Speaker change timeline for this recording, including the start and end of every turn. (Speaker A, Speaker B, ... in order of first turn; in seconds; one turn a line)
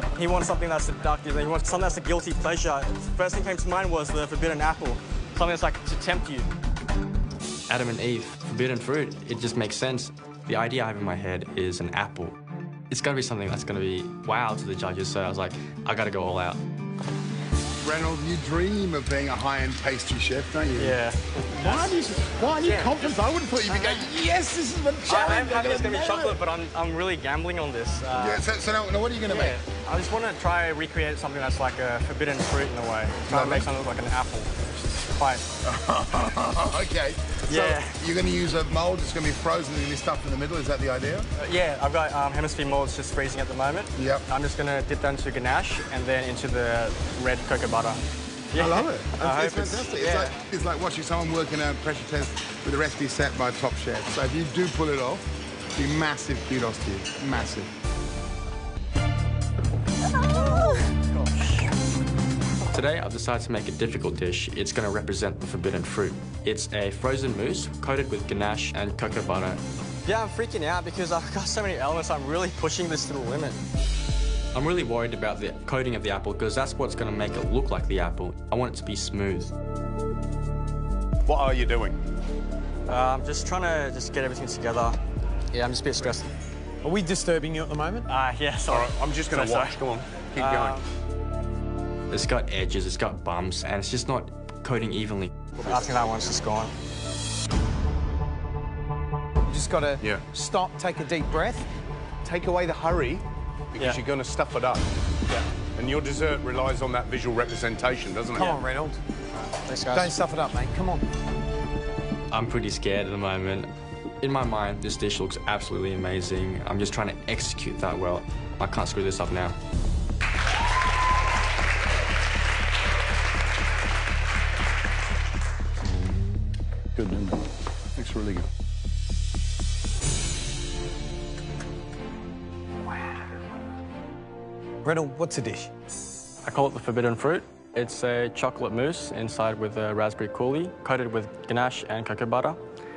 Speaker A: 0.1-6.5
Speaker B: 7.7-12.3
Speaker B: 12.9-16.6
Speaker C: 17.8-21.0
Speaker A: 20.8-22.0
Speaker C: 21.5-26.4
Speaker A: 22.6-23.2
Speaker A: 23.7-24.0
Speaker A: 25.1-28.5
Speaker C: 28.1-29.6
Speaker A: 29.3-35.5
Speaker C: 33.3-33.7
Speaker C: 35.6-41.3
Speaker A: 37.5-38.0
Speaker A: 41.4-50.4
Speaker C: 44.0-44.2
Speaker C: 48.5-55.2
Speaker C: 55.8-57.7
Speaker A: 60.2-61.7
Speaker B: 62.7-69.6
Speaker A: 70.0-73.6
Speaker B: 74.5-79.5
Speaker D: 81.3-82.0
Speaker A: 82.9-85.0
Speaker A: 85.5-86.3
Speaker E: 86.8-88.1
Speaker A: 88.1-90.9
Speaker D: 88.7-90.8
Speaker B: 92.1-95.3
Speaker D: 95.6-96.4
Speaker A: 95.6-96.7
Speaker E: 99.5-101.7
Speaker D: 102.2-104.9
Speaker D: 105.8-108.6
Speaker E: 108.3-109.0
Speaker A: 109.5-110.2
Speaker E: 109.9-111.0
Speaker B: 112.3-113.7
Speaker B: 114.2-119.6
Speaker D: 127.0-127.4
Speaker D: 128.0-128.5
Speaker E: 134.8-135.7
Speaker A: 136.4-142.6